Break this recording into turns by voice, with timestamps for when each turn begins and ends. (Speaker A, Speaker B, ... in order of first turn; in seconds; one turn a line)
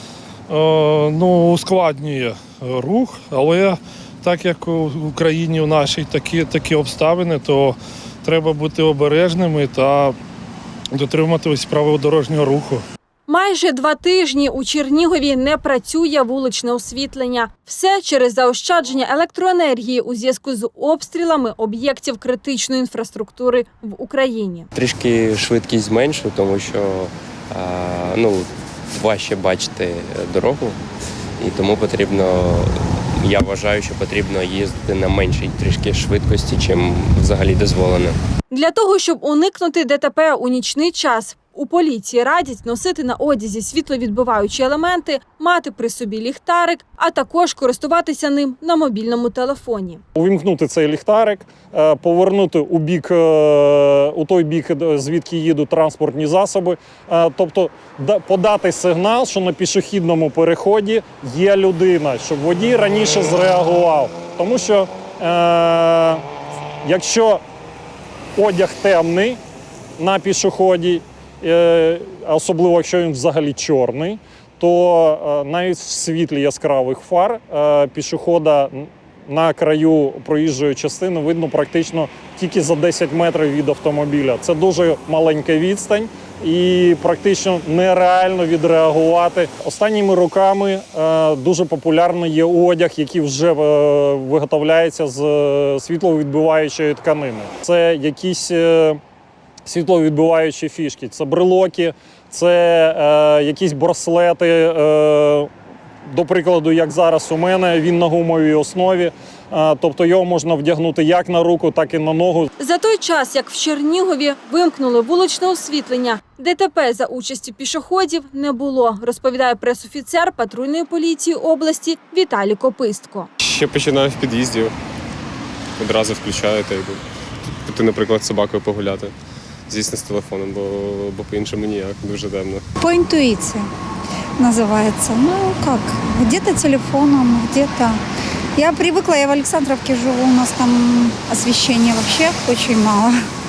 Speaker A: 0.5-10.2
Speaker A: 10.9-12.8
Speaker B: 13.3-24.7
Speaker C: 24.7-30.8
Speaker C: 31.4-38.2
Speaker B: 38.5-50.0
Speaker D: 50.1-66.2
Speaker D: 66.8-67.4
Speaker D: 68.4-69.4
Speaker D: 70.0-99.0
Speaker D: 99.7-105.5
Speaker D: 106.0-112.5
Speaker B: 112.6-123.3
Speaker E: 123.4-124.8
Speaker E: 125.8-127.0
Speaker E: 127.7-129.1
Speaker E: 129.7-132.6
Speaker F: 132.8-133.7
Speaker F: 134.4-138.0
Speaker F: 138.6-143.2